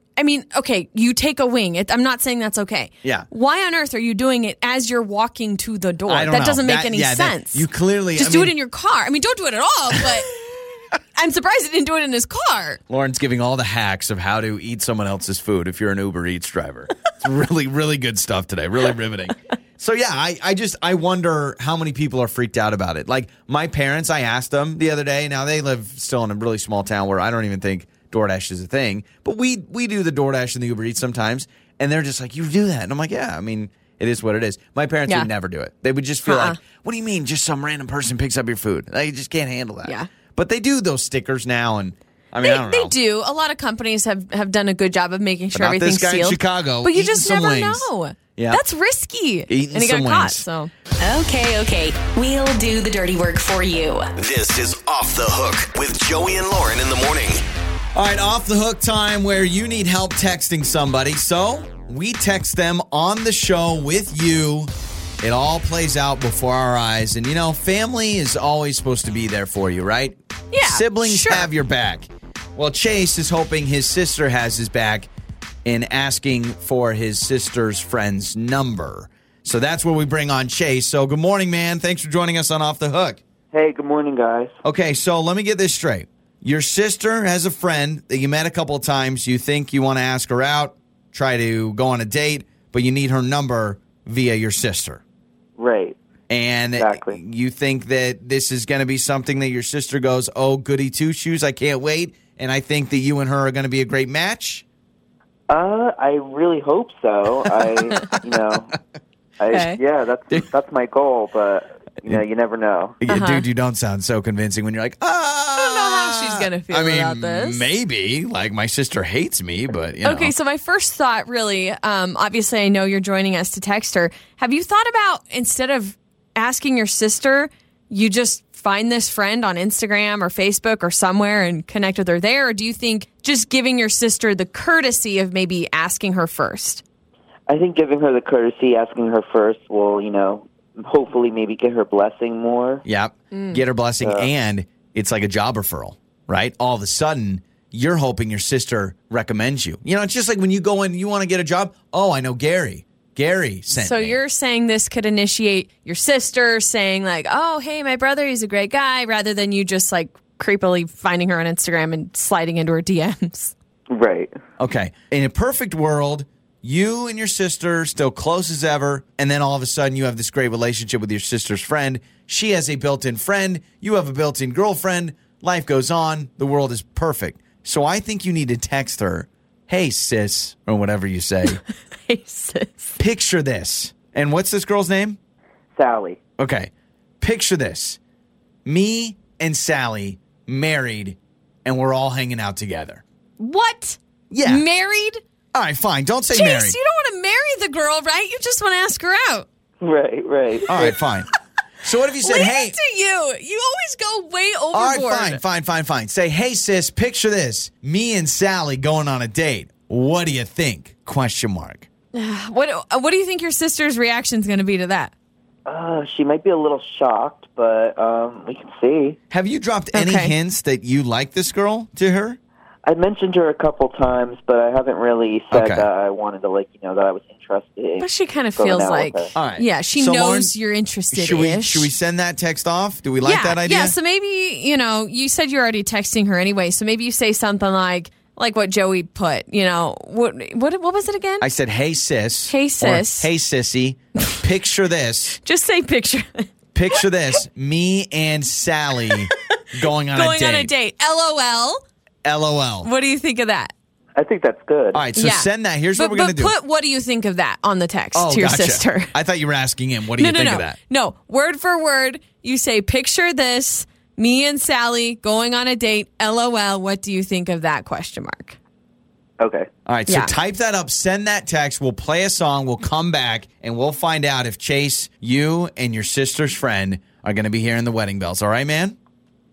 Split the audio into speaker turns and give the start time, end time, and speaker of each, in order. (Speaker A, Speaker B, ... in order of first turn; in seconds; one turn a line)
Speaker A: 0.2-7.7
Speaker B: 6.1-8.5
Speaker A: 8.2-10.4
Speaker A: 11.2-12.8
Speaker B: 12.9-42.9
Speaker A: 36.2-36.6
Speaker A: 42.4-50.7
Speaker B: 45.5-48.6
Speaker B: 49.5-50.5
Speaker C: 51.0-54.1
Speaker D: 54.2-57.4
Speaker B: 58.0-64.7
Speaker B: 65.2-75.1
Speaker A: 70.5-71.5
Speaker B: 75.7-83.2
Speaker E: 83.5-84.6
Speaker B: 84.6-95.0
Speaker E: 95.6-96.0
Speaker B: 96.3-104.6
Speaker E: 96.8-97.2
Speaker E: 105.5-108.7
Speaker E: 109.4-113.0
Speaker A: 109.5-109.8
Speaker B: 113.0-120.3
Speaker A: 113.1-113.5
Speaker A: 115.6-117.7
Speaker A: 120.0-136.8
Speaker E: 137.5-142.8
Speaker B: 142.8-154.2
Speaker A: 143.3-143.6
Speaker E: 144.0-144.3
Speaker A: 153.7-163.5
Speaker E: 163.9-164.3
Speaker B: 164.6-181.6
Speaker A: 182.1-183.0
Speaker B: 183.0-185.2
Speaker E: 185.8-186.2
Speaker B: 186.4-188.0
Speaker B: 188.7-193.0
Speaker A: 193.4-195.2
Speaker B: 194.3-194.6
Speaker B: 195.5-196.8
Speaker A: 196.3-199.5
Speaker E: 199.8-200.9
Speaker B: 200.7-201.3
Speaker B: 201.8-202.8
Speaker A: 202.2-205.4
Speaker B: 204.7-211.9
Speaker A: 212.1-215.1
Speaker E: 215.7-219.2
Speaker B: 219.3-222.4
Speaker A: 219.9-220.3
Speaker E: 222.9-229.3
Speaker B: 225.5-225.9
Speaker A: 228.0-231.9
Speaker B: 229.3-230.5
Speaker B: 231.1-234.0
Speaker A: 233.2-241.5
Speaker B: 241.4-245.4
Speaker A: 242.5-243.3
Speaker A: 245.4-246.5
Speaker B: 246.8-250.7
Speaker A: 250.1-251.8
Speaker B: 252.2-252.9
Speaker A: 252.8-253.7
Speaker E: 254.2-255.1
Speaker B: 254.9-256.5
Speaker A: 255.2-259.1
Speaker B: 258.1-260.8
Speaker A: 260.2-268.6
Speaker E: 269.4-269.7
Speaker B: 269.9-279.0
Speaker A: 270.1-270.4